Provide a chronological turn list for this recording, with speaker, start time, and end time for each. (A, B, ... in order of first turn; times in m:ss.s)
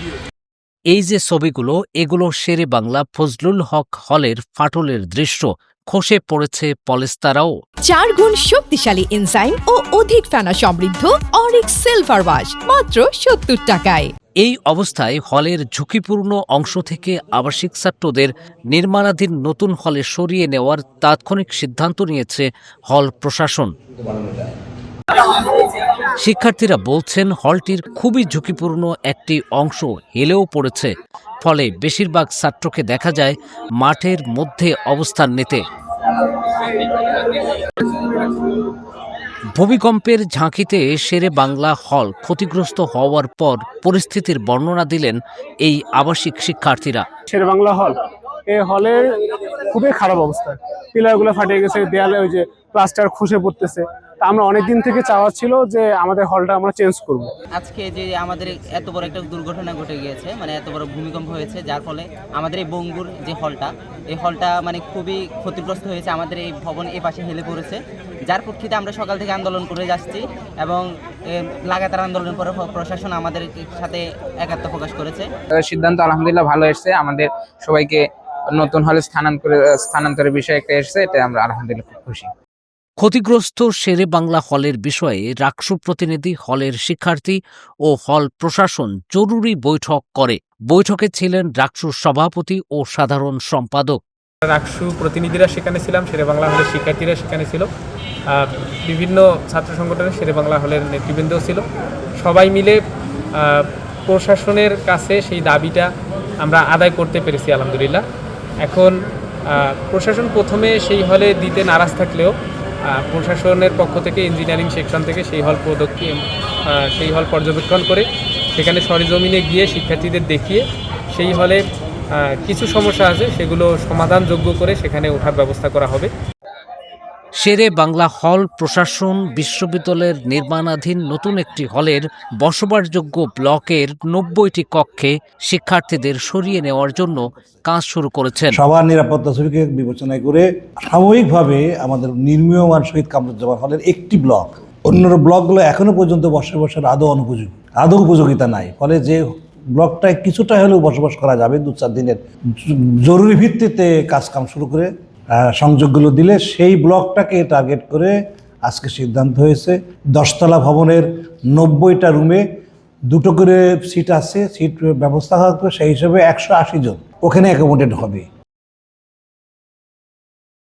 0:00.9-0:07.5 A
0:07.9-0:14.1 B
0:14.4-0:23.8 A
0:26.1-0:35.6 A
0:39.5-0:47.1 A
0:47.3-0:48.0 C
0:48.5-0:57.3 C
0:57.6-1:15.3 D
1:15.5-1:22.3 E
1:23.0-1:34.0 A
1:34.5-1:37.7 F
1:38.3-1:41.6 F
1:42.2-1:42.8 F
1:43.4-1:45.9 F
1:46.4-1:48.0 F
1:48.6-1:48.9 F
1:49.5-1:52.3 F
1:52.9-1:58.0 F
1:58.6-2:01.6 F
2:02.2-2:06.1 F
2:07.4-2:18.6 A
2:18.5-2:42.4 G
2:43.1-2:48.2 G